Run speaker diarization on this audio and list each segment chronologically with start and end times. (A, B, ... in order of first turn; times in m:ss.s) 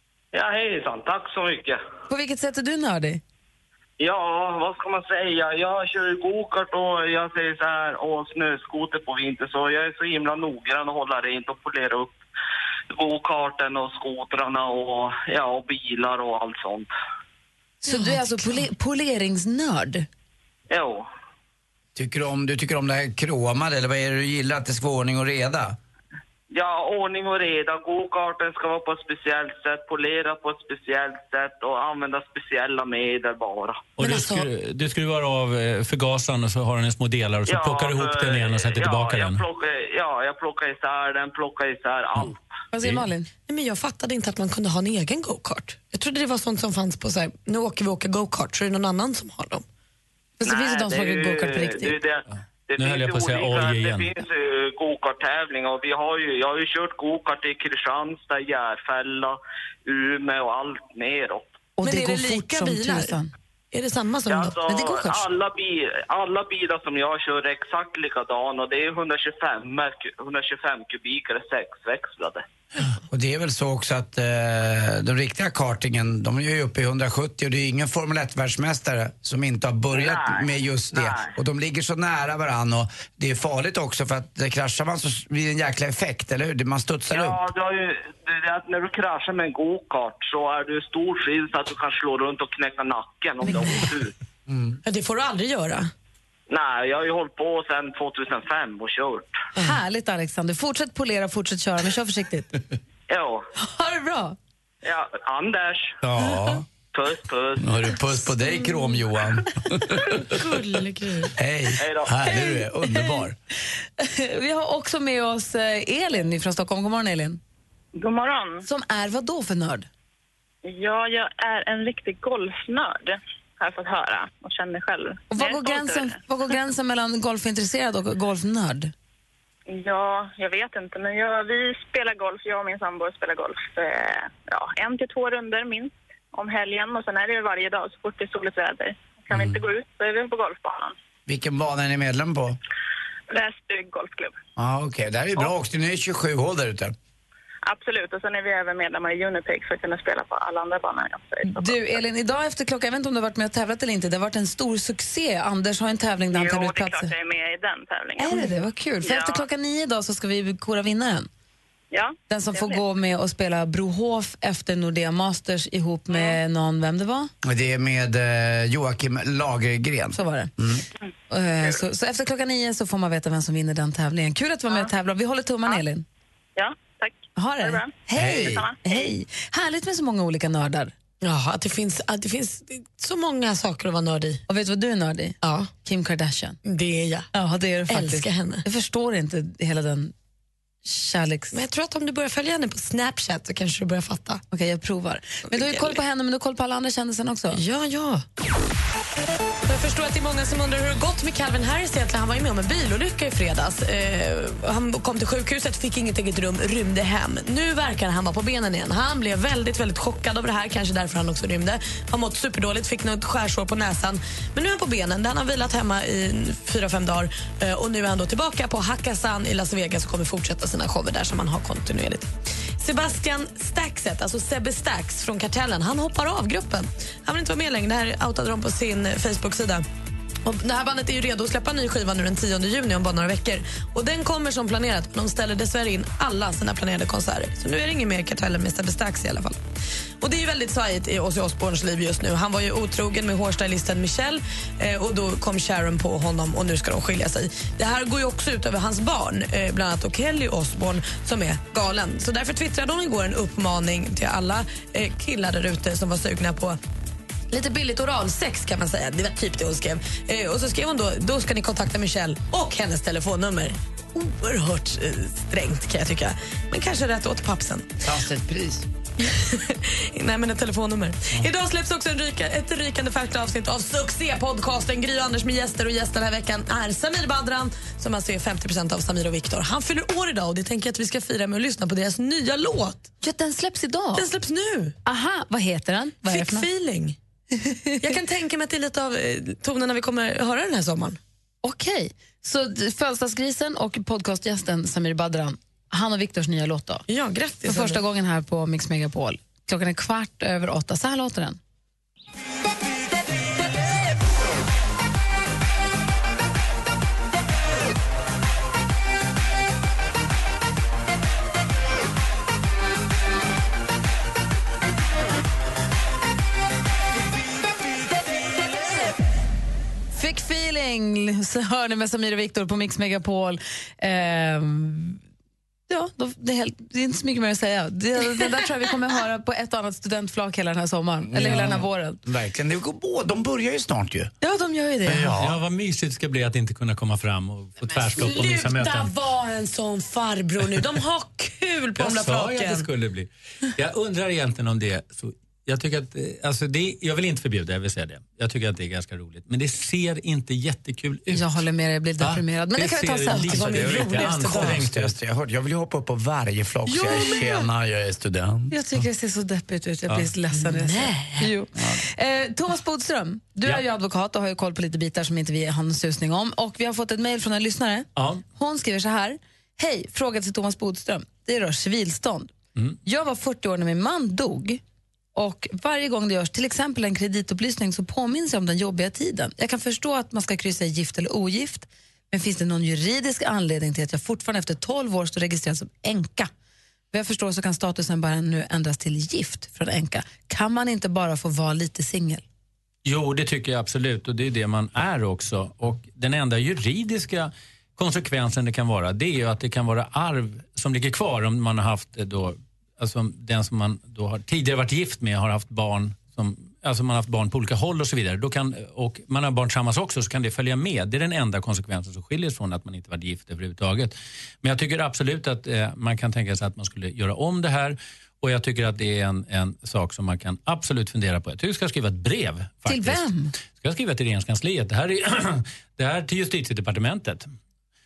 0:00.3-0:01.8 A
0:02.1-0:03.2 B
0:04.0-0:12.2 A
0:12.9-0:16.9 A
0:17.8-0:20.1 B
0:17.9-0:18.6 C
0:20.7-0:21.1 A
0:22.0-0:25.8 D
0:26.5-0:33.9 A
0:34.0-0:39.4 E
0:34.0-0:34.5 C
0:37.5-0:42.4 A
0:42.2-0:43.1 E
0:42.7-0:43.3 B
0:43.5-0:49.6 C
0:50.4-0:52.0 B
0:50.4-1:01.6 A
0:52.3-0:54.1 E
1:01.8-1:03.3 B
1:01.8-1:03.2 C
1:03.7-1:05.2 C
1:04.3-1:12.4 A
1:13.1-1:27.4 D
1:19.9-1:21.3 A
1:27.1-1:34.1 A
1:34.5-1:34.8 D
1:34.8-1:35.9 C
1:36.5-1:39.4 A
1:39.6-1:42.5 B
1:43.1-1:43.5 A
1:43.6-1:44.4 B
1:44.8-1:46.0 A
1:46.0-1:46.6 D
1:46.9-1:47.7 A
1:47.6-1:50.2 D
1:50.3-1:51.3 C
1:51.4-1:53.4 D
1:51.8-1:52.1 A
1:52.3-1:53.2 B
1:54.0-1:57.4 B
1:58.0-1:58.6 F
1:58.6-1:59.9 B
2:00.6-2:06.2 F
2:05.3-2:08.9 B
2:09.7-2:21.0 F
2:19.3-2:19.6 D
2:21.3-2:22.6 D
2:23.3-2:24.3 F
2:24.6-2:26.9 D
2:27.7-2:31.8 F
2:31.5-2:37.1 B
2:36.3-2:38.5 F
2:38.2-2:41.3 B
2:39.0-2:39.4 F
2:41.9-2:42.8 F
2:42.3-2:47.3 B
2:47.4-2:50.8 D
2:50.1-2:50.5 B
2:51.3-2:56.0 B
2:56.6-2:59.0 F
2:57.4-3:00.9 B
2:58.1-2:58.7 D
3:01.2-3:04.4 C
3:04.5-3:06.6 B
3:05.4-3:05.7 C
3:06.6-3:07.3 C
3:07.3-3:10.1 B
3:07.9-3:08.6 C
3:10.8-3:11.6 B
3:11.5-3:14.4 C
3:14.5-3:17.6 B
3:15.6-3:15.9 C
3:17.5-3:18.2 C
3:19.7-3:49.8 C
3:50.4-3:59.6 C
4:00.2-4:16.8 C
4:17.5-4:27.9 C
4:28.0-4:28.9 D
4:29.2-4:43.1 C
4:43.2-4:44.2 B
4:44.2-4:45.0 C
4:45.0-4:46.7 B
4:46.3-4:47.2 C
4:47.6-4:48.0 B
4:48.0-4:51.2 C
4:51.6-4:57.0 B
4:57.1-4:58.0 C
4:57.6-5:01.6 B
5:20.1-5:25.2 B
5:25.9-5:32.2 B
5:31.3-5:34.3 D
5:34.4-5:35.4 B
5:35.1-5:35.6 D
5:35.3-5:39.1 E
5:38.0-5:42.9 C
5:42.0-5:51.6 E
5:51.3-5:54.3 B
5:52.2-5:55.1 E
5:53.3-5:54.9 C
5:53.8-5:58.7 D
5:56.9-5:57.7 B
5:58.7-6:12.5 B
6:00.5-6:01.5 C
6:08.2-6:08.4 E
6:13.0-6:14.8 B
6:15.4-6:26.5 B
6:27.1-6:32.4 B
6:33.0-7:07.5 E
7:02.9-7:03.5 B